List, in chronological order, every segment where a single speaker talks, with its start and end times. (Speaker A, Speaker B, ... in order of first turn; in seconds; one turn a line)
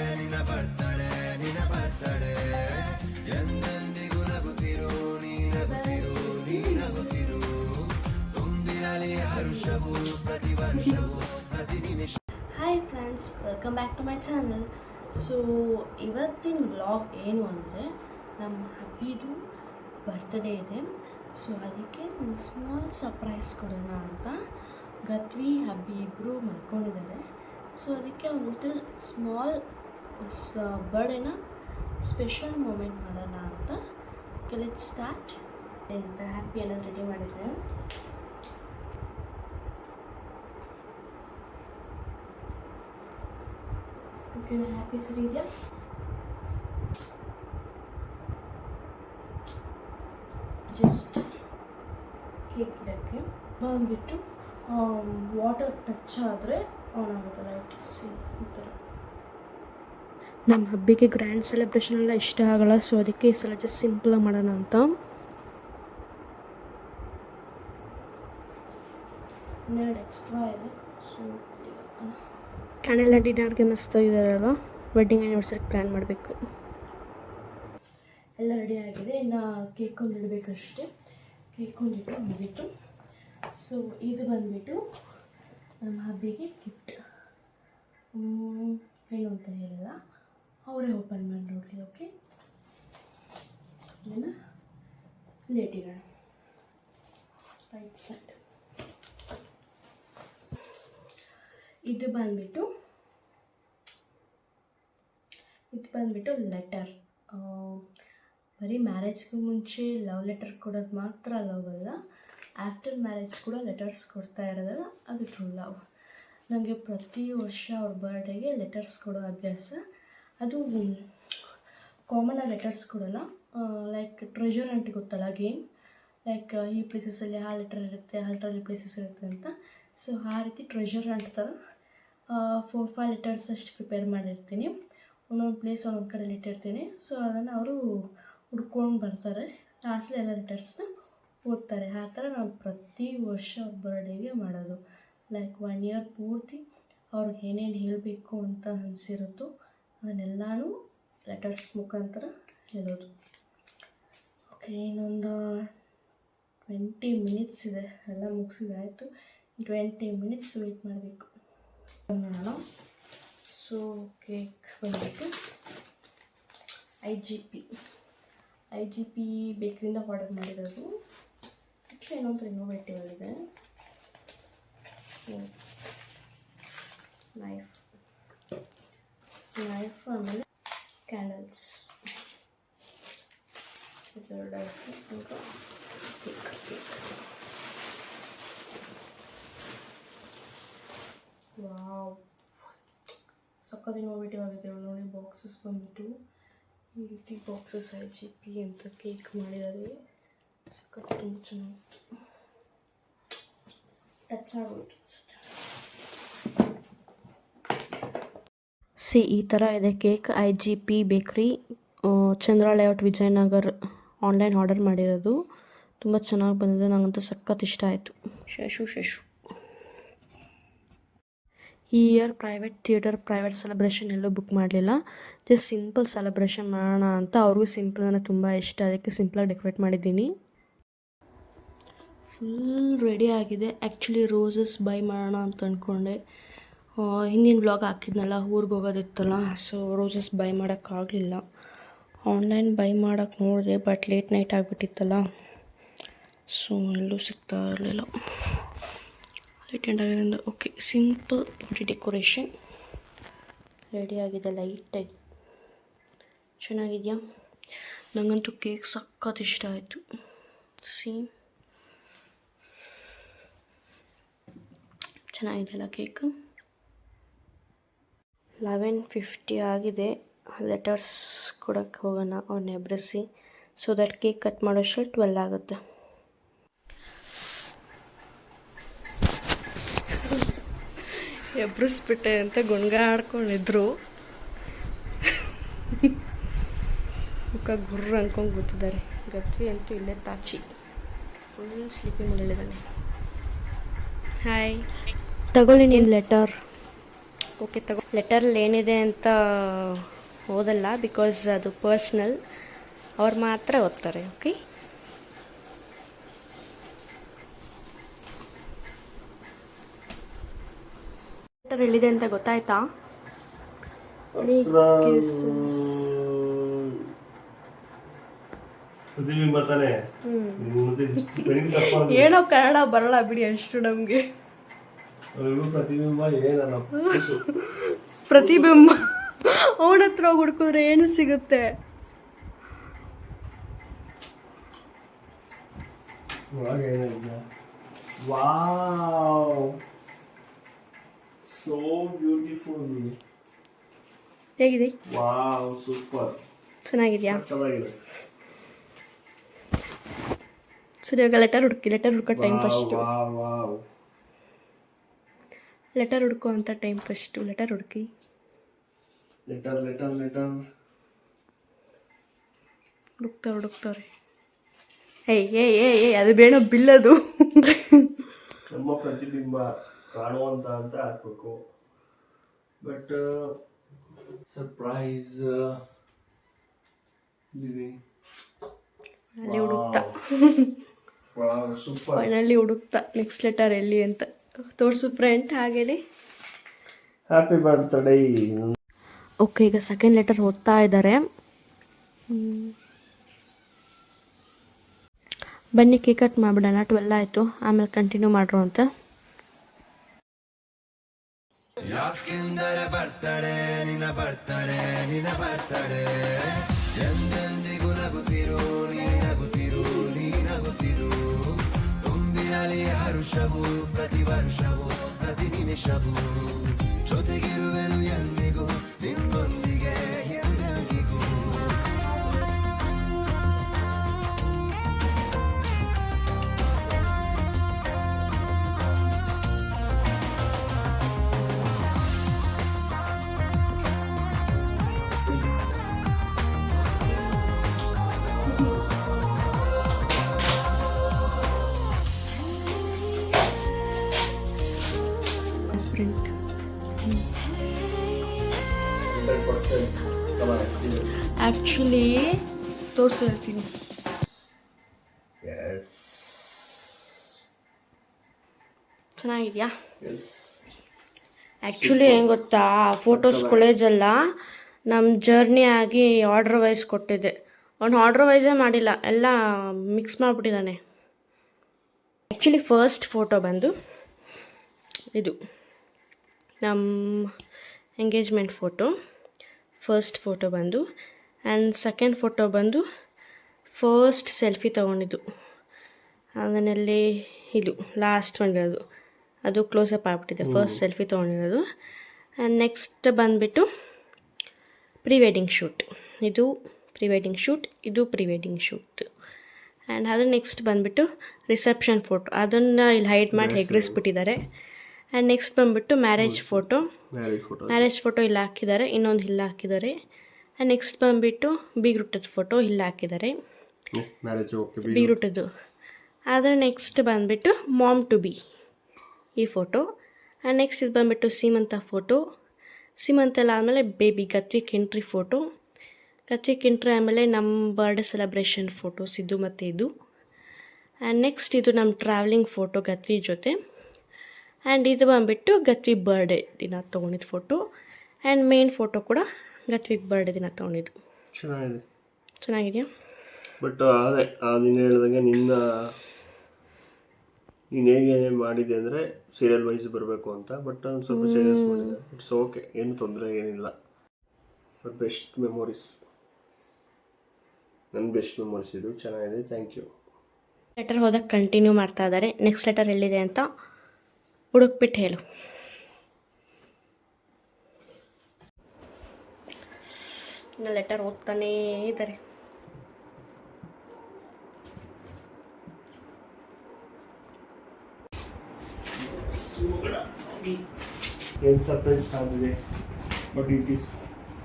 Speaker A: 1.2-1.5
Speaker B: 5.5-7.6
Speaker B: 8.7-11.2
Speaker B: 12.5-19.4
Speaker B: 20.1-20.9
Speaker B: 21.4-24.4
Speaker B: 25.1-27.2
Speaker B: 27.8-29.6
Speaker B: 30.2-31.4
Speaker B: 32.0-33.8
Speaker B: 34.5-37.6
Speaker B: 44.3-45.5
Speaker B: 50.7-51.3
Speaker B: 52.5-58.8
Speaker B: 60.5-64.9
Speaker B: 69.7-72.2
Speaker B: 72.8-76.4
Speaker B: 78.4-80.9
Speaker B: 81.5-82.7
Speaker B: 83.5-84.8
Speaker B: 85.8-87.0
Speaker B: 88.1-90.0
Speaker B: 90.7-92.1
Speaker B: 94.0-94.3
Speaker B: 95.5-96.0
Speaker B: 97.7-98.4
Speaker B: 101.9-102.7
Speaker B: 105.7-107.8
Speaker B: 108.6-112.0
Speaker B: 112.6-115.7
Speaker B: 116.5-119.8
Speaker B: 120.4-121.0
Speaker B: 122.1-125.6
Speaker B: 126.3-131.6
Speaker B: 132.3-134.7
Speaker B: 135.3-137.8
Speaker B: 138.5-140.9
Speaker B: 141.5-144.8
Speaker B: 145.3-149.5
Speaker B: 150.0-150.7
Speaker B: 151.3-153.1
Speaker B: 154.5-155.7
Speaker B: 156.7-161.3
Speaker B: 162.1-162.6
Speaker B: 163.5-165.3
Speaker B: 167.0-167.7
Speaker B: 168.7-170.9
Speaker B: 171.9-173.4
Speaker B: 175.3-175.5
Speaker B: 177.4-177.8
Speaker B: 179.6-180.5
Speaker B: 181.1-181.9
Speaker B: 184.1-185.4
Speaker B: 186.2-187.0
Speaker B: 191.6-192.2
Speaker B: 193.6-196.1
Speaker B: 197.0-200.0
Speaker B: 200.7-201.9
Speaker B: 204.3-205.4
Speaker B: 209.0-215.4
Speaker B: 216.0-219.3
Speaker B: 221.9-230.3
Speaker B: 232.3-236.2
Speaker B: 237.0-241.4
Speaker B: 242.3-245.2
Speaker B: 246.5-248.1
Speaker B: 249.7-252.5
Speaker B: 253.9-255.2
Speaker B: 256.6-257.2
Speaker B: 258.1-260.0
Speaker B: 260.8-261.3
Speaker B: 265.3-266.3
Speaker B: 268.6-273.2
Speaker B: 273.8-275.8
Speaker B: 281.1-283.9
Speaker B: 287.5-290.8
Speaker B: 291.5-292.8
Speaker B: 294.4-294.9
Speaker B: 295.5-296.5
Speaker B: 297.6-302.4
Speaker B: 303.2-304.6
Speaker B: 311.6-312.8
Speaker C: 314.3-317.1
Speaker B: 314.4-316.1
Speaker C: 319.1-320.0
Speaker B: 320.2-320.7
Speaker C: 320.6-322.3
Speaker B: 321.2-324.2
Speaker C: 325.3-327.4
Speaker B: 327.0-331.7
Speaker C: 328.3-328.9
Speaker C: 336.5-337.4
Speaker C: 338.2-339.8
Speaker C: 341.4-343.2
Speaker B: 344.6-344.9
Speaker C: 345.1-346.4
Speaker B: 346.8-347.4
Speaker C: 347.3-348.0
Speaker B: 351.1-353.0
Speaker C: 352.3-353.8
Speaker B: 355.9-358.1
Speaker C: 359.5-360.5
Speaker B: 363.2-364.1
Speaker B: 365.3-368.1
Speaker C: 368.7-371.6
Speaker C: 372.8-373.6
Speaker C: 374.5-375.8
Speaker C: 377.5-378.0
Speaker B: 379.4-380.8
Speaker C: 379.4-380.2
Speaker C: 381.3-382.3
Speaker B: 382.1-386.0
Speaker C: 387.3-388.8
Speaker B: 389.4-391.2
Speaker B: 392.3-392.7
Speaker B: 395.8-398.9
Speaker A: 401.9-421.4
Speaker B: 445.7-446.3
Speaker C: 449.1-451.1
Speaker B: 451.4-452.4
Speaker B: 452.9-453.8
Speaker C: 455.4-457.0
Speaker B: 459.2-459.7
Speaker C: 460.0-460.6
Speaker B: 461.6-464.2
Speaker C: 461.7-462.2
Speaker C: 463.1-463.7
Speaker B: 464.9-470.8
Speaker B: 472.3-473.7
Speaker B: 476.6-477.3
Speaker B: 478.0-478.9
Speaker B: 479.8-480.8
Speaker B: 481.5-482.8
Speaker B: 483.7-485.2
Speaker B: 486.4-488.8
Speaker B: 489.4-491.6
Speaker C: 490.4-490.8
Speaker B: 492.4-493.7
Speaker B: 495.0-499.0
Speaker B: 499.9-504.4
Speaker C: 503.3-504.0
Speaker B: 505.1-506.9
Speaker C: 506.2-507.9
Speaker B: 507.7-509.9
Speaker B: 510.6-513.3
Speaker C: 513.9-515.2
Speaker B: 514.9-515.5
Speaker B: 516.3-518.4
Speaker B: 519.4-519.8
Speaker B: 520.5-522.2
Speaker B: 523.0-525.4
Speaker B: 526.3-529.9
Speaker B: 531.0-533.5
Speaker B: 534.7-537.6
Speaker B: 538.2-541.0
Speaker C: 541.3-541.8
Speaker B: 542.4-542.9
Speaker C: 543.6-545.7
Speaker C: 547.7-553.7
Speaker B: 551.1-552.0
Speaker C: 554.8-556.0
Speaker C: 557.9-559.9
Speaker B: 560.8-563.5
Speaker B: 564.5-565.2
Speaker B: 570.6-572.2
Speaker C: 579.0-580.6
Speaker C: 581.4-582.6
Speaker C: 583.3-584.0